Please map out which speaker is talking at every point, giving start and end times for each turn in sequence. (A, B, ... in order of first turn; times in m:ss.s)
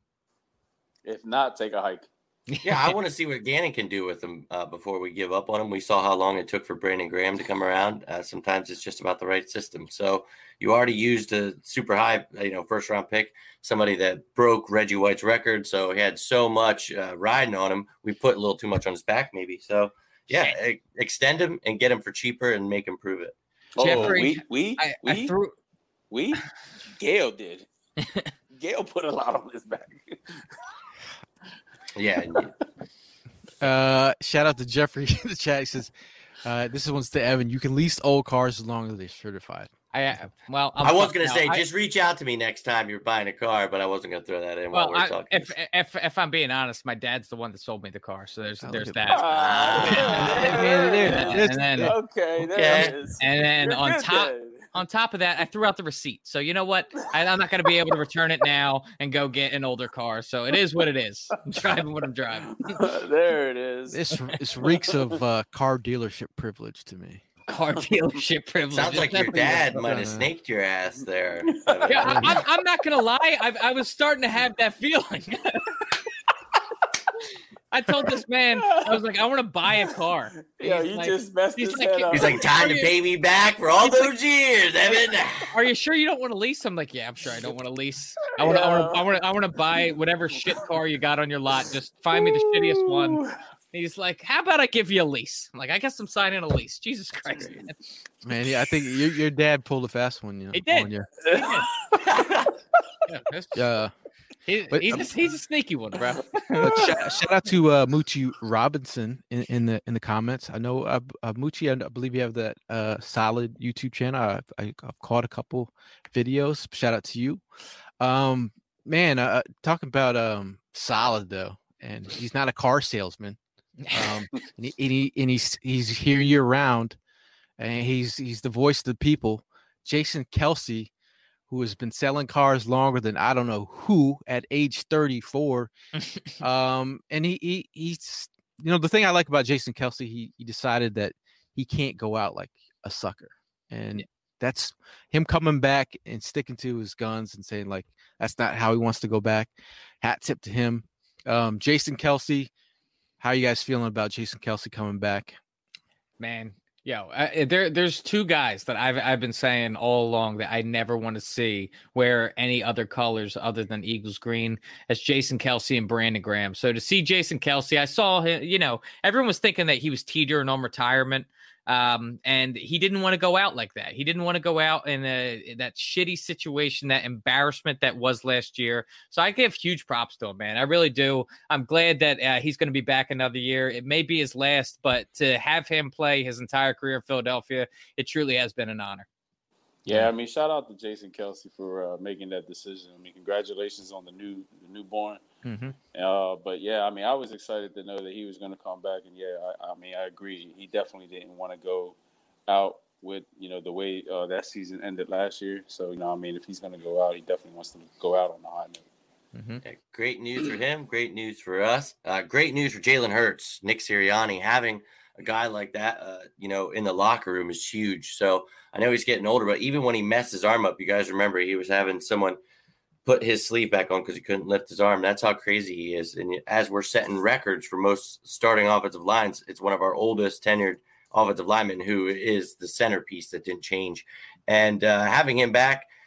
0:01.0-0:02.1 A
0:02.5-0:03.0 B
0:02.6-0:23.4 C
0:20.3-0:20.6 B
0:23.8-0:25.4 A
0:23.8-0:25.6 B
0:26.1-0:27.7 A
0:28.0-0:28.3 B
0:28.5-0:30.5 A
0:32.0-0:32.5 C
0:33.6-0:39.7 D
0:39.9-0:41.6 B
0:40.8-0:45.5 C
0:44.7-0:50.5 B
0:48.6-0:49.2 D
0:49.1-0:54.7 A
0:49.3-0:51.4 C
0:50.0-0:52.0 D
0:51.1-0:51.9 B
0:52.5-0:53.0 C
0:53.2-1:02.9 B
1:02.7-1:04.0 A
1:03.9-1:07.2 D
1:04.6-1:05.1 A
1:07.5-1:09.8 B
1:08.7-1:12.4 C
1:09.8-1:10.3 D
1:11.6-1:12.2 A
1:11.9-1:15.8 B
1:12.1-1:12.3 D
1:17.7-1:22.9 B
1:18.6-1:19.0 A
1:20.6-1:22.4 A
1:22.1-1:25.5 C
1:23.8-1:24.1 B
1:25.5-1:37.8 B
1:28.4-1:29.0 A
1:29.8-1:30.6 A
1:32.1-1:33.4 A
1:38.2-1:41.1 D
1:40.5-1:41.7 B
1:41.2-1:42.2 A
1:42.1-1:42.5 C
1:43.1-1:43.7 B
1:43.5-1:43.9 D
1:44.5-1:46.7 B
1:44.7-1:45.1 D
1:46.6-1:47.0 A
1:46.6-1:57.4 D
1:58.0-2:03.4 D
2:03.8-2:04.2 B
2:03.9-2:07.0 D
2:07.6-2:10.9 D
2:11.5-2:15.7 D
2:16.0-2:16.4 B
2:16.4-2:32.5 D
2:33.2-2:35.4 D
2:36.2-3:09.1 B
3:09.9-3:15.2 A
3:15.4-3:15.8 D
3:15.9-3:22.0 A
3:22.5-3:28.8 A
3:29.3-3:29.6 B
3:29.6-3:42.4 C
3:43.1-3:55.9 C